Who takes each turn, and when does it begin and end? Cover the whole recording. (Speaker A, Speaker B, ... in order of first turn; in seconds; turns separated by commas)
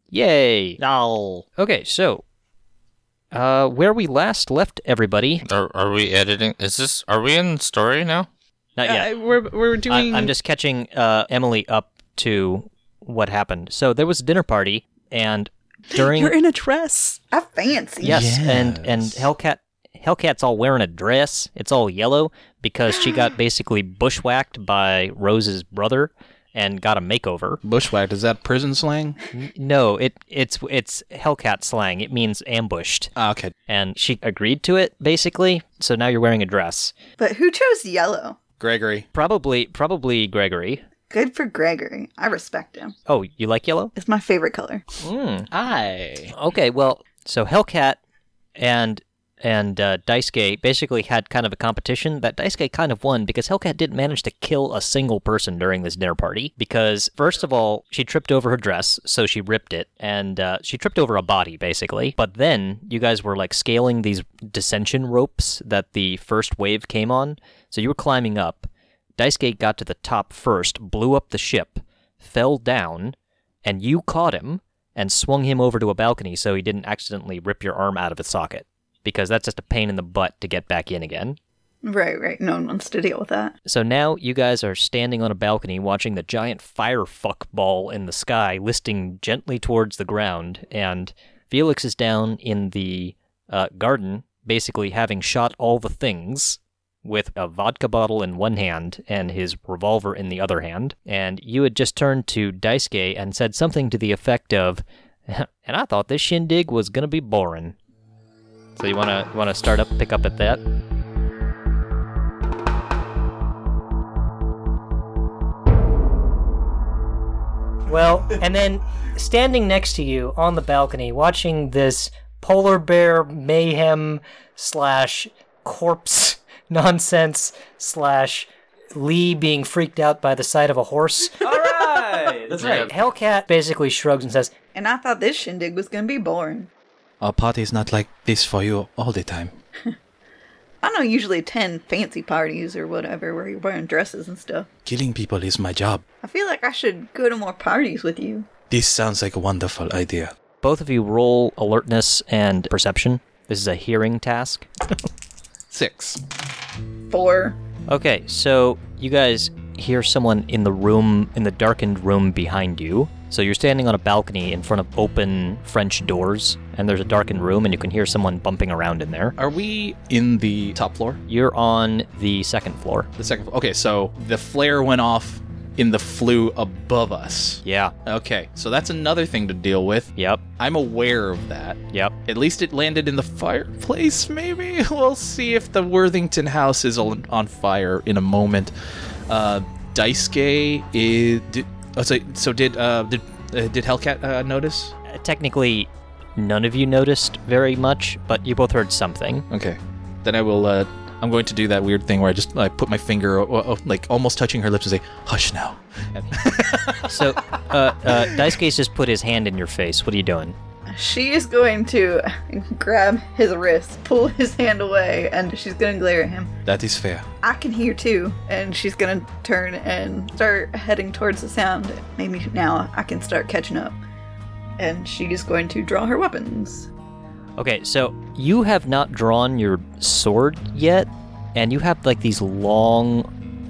Speaker A: 0.1-2.2, Speaker A: 3.3-5.5, Speaker B: 5.5-8.3, Speaker A: 8.8-9.1, Speaker C: 8.8-10.3, Speaker A: 9.9-16.4, Speaker C: 15.9-17.2, Speaker D: 17.3-18.3, Speaker E: 18.0-19.3, Speaker A: 18.0-27.6, Speaker E: 27.6-29.2, Speaker A: 29.3-33.1, Speaker E: 33.2-33.5, Speaker A: 33.7-36.9, Speaker D: 37.2-38.4, Speaker E: 38.6-39.1, Speaker A: 39.1-40.8, Speaker D: 41.1-43.0, Speaker A: 43.1-43.9, Speaker D: 44.0-44.8, Speaker A: 45.0-45.5, Speaker E: 45.5-46.3, Speaker A: 46.3-48.0, Speaker A: 48.6-81.4, Speaker D: 81.8-83.5, Speaker A: 83.7-107.8, Speaker A: 108.8-110.6, Speaker A: 117.9-134.5, Speaker B: 132.6-132.9, Speaker D: 134.7-136.7, Speaker E: 137.2-139.6, Speaker D: 140.8-144.7, Speaker E: 144.8-146.0, Speaker D: 146.2-148.5, Speaker E: 148.7-150.3, Speaker A: 150.6-154.7, Speaker E: 155.7-156.2, Speaker D: 157.1-157.6, Speaker A: 157.9-169.4, Speaker E: 169.4-171.2, Speaker A: 171.3-173.1, Speaker E: 173.2-188.7, Speaker A: 177.7-177.9, Speaker A: 180.2-180.4, Speaker E: 189.3-194.9, Speaker A: 195.1-199.5, Speaker E: 199.5-208.5, Speaker A: 207.0-210.6, Speaker D: 210.9-216.5, Speaker E: 216.7-217.3, Speaker D: 217.4-224.0, Speaker D: 224.8-226.9, Speaker A: 227.6-233.3